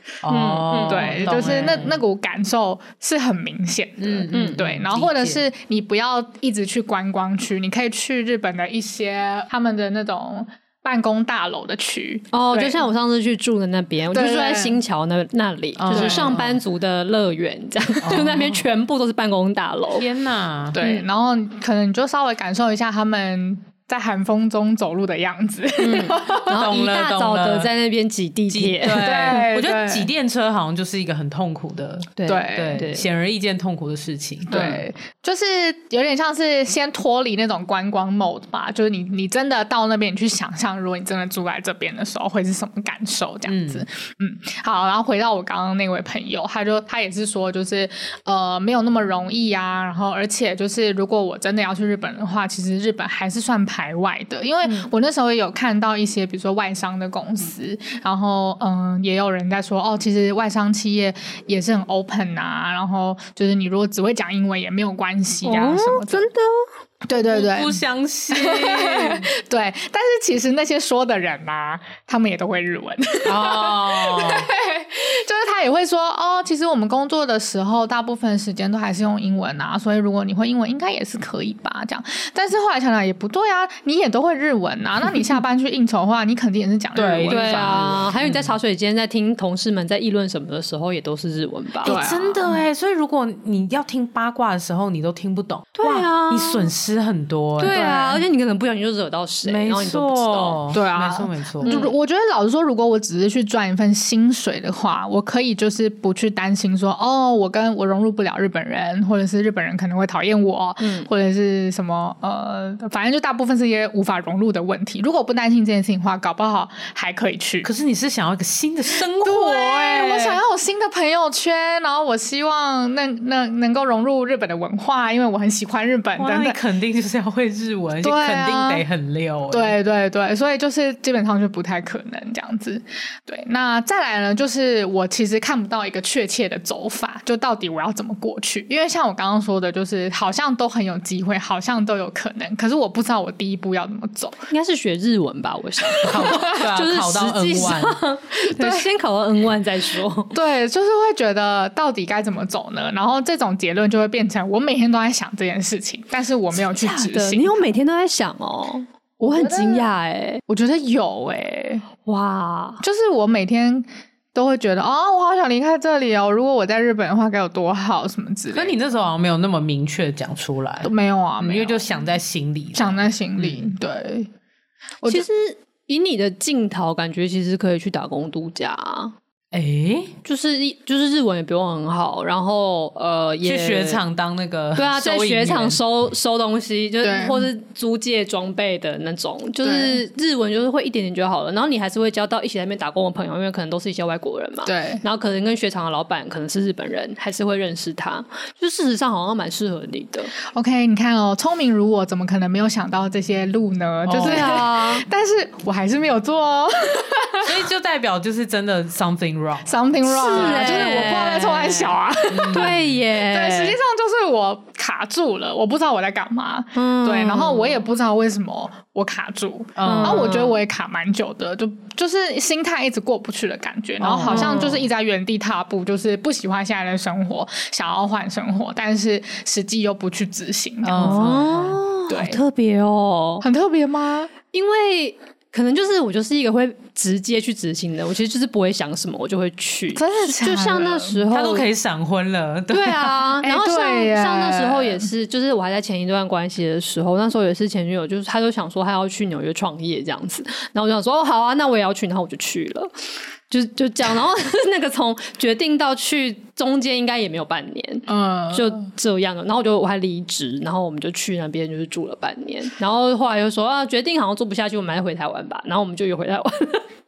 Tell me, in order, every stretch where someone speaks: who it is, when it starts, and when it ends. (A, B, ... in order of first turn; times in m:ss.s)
0:00.2-0:02.0 A
0:00.3-0:01.2 B
0:00.7-0:12.9 C
0:04.0-0:05.5 A
0:04.3-0:04.6 B
0:12.3-0:20.1 B
0:14.1-0:14.8 C
0:15.8-0:16.6 A
0:15.9-0:16.4 C
0:18.0-0:18.6 A
0:19.9-0:20.8 A
0:20.7-0:26.6 C
0:25.8-0:29.1 B
0:26.5-0:27.7 A
0:28.5-0:34.8 A
0:28.9-0:30.1 C
0:32.2-0:33.0 B
0:32.3-0:32.9 C
0:34.5-1:06.3 C
0:34.5-0:34.8 B
0:43.5-0:43.8 A
1:05.4-1:06.7 B
1:07.1-1:27.9 C
1:07.1-1:09.3 A
1:13.2-1:14.5 A
1:27.0-1:28.5 A
1:27.3-1:32.0 B
1:31.8-1:38.2 A
1:31.8-1:32.6 C
1:35.8-1:36.7 B
1:37.6-1:40.6 B
1:37.7-1:38.1 C
1:39.4-1:41.7 A
1:40.7-1:57.7 C
1:41.6-1:42.0 B
1:50.8-1:51.1 B
1:57.6-2:00.4 A
1:59.0-2:06.6 C
2:06.2-2:09.8 A
2:08.0-2:08.8 C
2:09.5-2:24.4 C
2:24.5-2:30.4 B
2:26.0-2:26.6 C
2:26.0-2:28.0 A
2:28.4-2:28.9 C
2:30.3-2:37.7 C
2:36.5-2:40.4 B
2:39.2-2:39.9 C
2:40.5-2:41.9 C
2:42.0-2:42.8 B
2:42.8-2:48.8 C
2:48.5-2:53.8 A
2:50.8-2:51.9 C
2:52.8-2:54.3 C
2:55.1-2:59.2 B
2:59.5-3:00.1 A
3:00.2-3:04.0 B
3:03.4-3:05.8 A
3:04.8-3:20.3 B
3:07.0-3:07.5 C
3:09.6-3:10.0 C
3:14.6-3:15.0 C
3:20.5-3:27.6 C
3:24.1-3:24.5 A
3:24.2-3:25.1 B
3:27.4-3:31.0 A
3:29.7-3:51.4 C
3:30.1-3:33.8 B
3:32.3-3:32.9 A
3:36.8-3:37.8 B
3:39.8-3:40.4 A
3:39.8-3:40.6 B
3:44.0-3:44.9 A
3:44.2-3:44.8 B
3:50.8-3:51.8 A
3:51.0-3:53.4 B
3:52.1-3:52.4 C
3:53.4-3:54.3 C
3:54.5-4:01.7 B
4:00.0-4:01.2 C
4:01.3-4:03.2 A
4:02.7-4:12.9 B
4:03.4-4:05.1 C
4:13.5-4:26.9 B
4:18.1-4:18.9 C